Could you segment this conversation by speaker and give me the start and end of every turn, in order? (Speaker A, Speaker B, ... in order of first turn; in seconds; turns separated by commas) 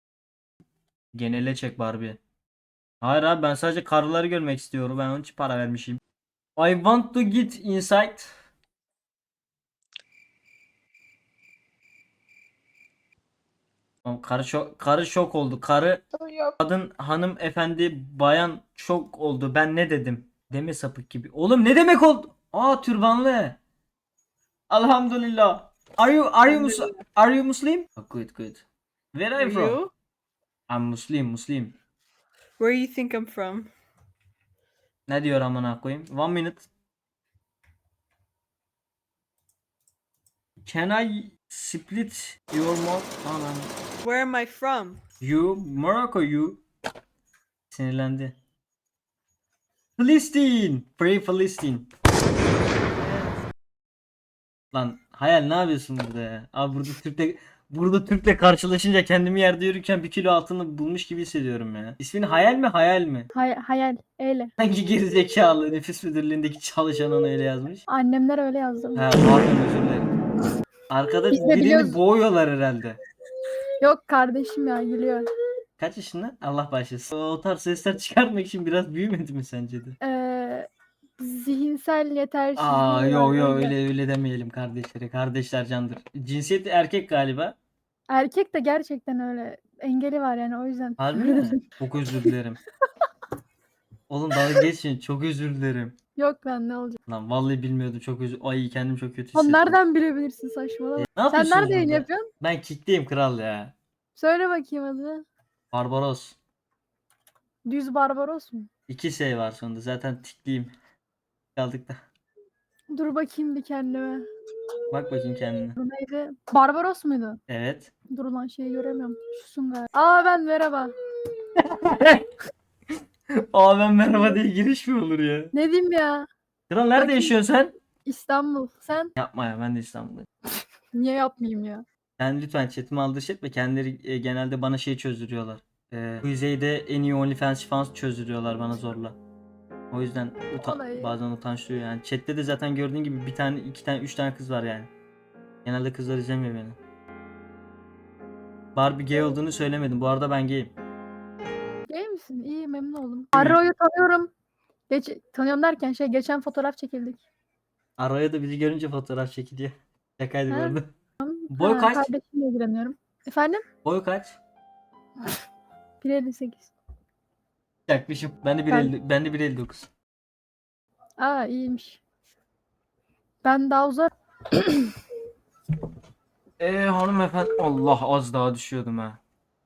Speaker A: 1.1-2.2, Speaker A: 3.0-6.0, Speaker A: 6.6-8.3, Speaker A: 14.0-16.0, Speaker A: 16.6-23.6, Speaker A: 24.7-29.8, Speaker B: 29.4-29.9, Speaker A: 30.7-31.8, Speaker B: 32.6-33.7, Speaker A: 35.1-36.7, Speaker A: 40.7-43.8, Speaker B: 44.0-45.0, Speaker A: 45.2-46.6, Speaker A: 47.7-48.4, Speaker A: 50.0-51.9, Speaker A: 53.0-53.3, Speaker A: 54.7-63.3, Speaker C: 63.3-64.5, Speaker A: 64.6-67.8, Speaker C: 67.9-69.1, Speaker A: 69.0-70.1, Speaker A: 70.9-73.0, Speaker C: 71.3-72.0, Speaker C: 73.8-75.3, Speaker A: 75.8-80.0, Speaker C: 80.0-83.8, Speaker A: 82.6-87.6, Speaker C: 88.1-91.6, Speaker A: 91.0-92.6, Speaker A: 94.1-96.0, Speaker C: 96.2-97.0, Speaker A: 97.1-99.8, Speaker C: 99.3-102.2, Speaker A: 101.0-103.8, Speaker C: 104.2-105.2, Speaker A: 105.7-106.4, Speaker C: 107.7-108.7, Speaker A: 108.9-110.7, Speaker A: 111.6-112.0, Speaker C: 112.9-114.2, Speaker A: 114.9-115.8, Speaker C: 115.8-117.4, Speaker A: 117.5-117.9, Speaker C: 118.1-120.9, Speaker A: 121.6-122.3, Speaker A: 123.5-125.5, Speaker C: 124.1-124.4, Speaker C: 125.5-126.3, Speaker A: 126.7-127.7, Speaker C: 127.0-127.4, Speaker C: 128.1-129.1, Speaker A: 129.2-130.3, Speaker C: 130.9-131.8, Speaker A: 132.2-139.2, Speaker A: 139.9-144.9, Speaker C: 140.6-141.2, Speaker A: 145.7-146.8, Speaker A: 148.8-150.7, Speaker C: 151.9-154.3, Speaker A: 153.3-153.6, Speaker C: 154.9-157.2, Speaker A: 158.0-160.9, Speaker C: 160.5-163.6, Speaker A: 161.5-162.1, Speaker A: 163.8-164.4, Speaker C: 166.0-166.7, Speaker A: 167.9-169.9, Speaker C: 171.2-172.0, Speaker C: 173.4-174.9, Speaker A: 176.6-179.2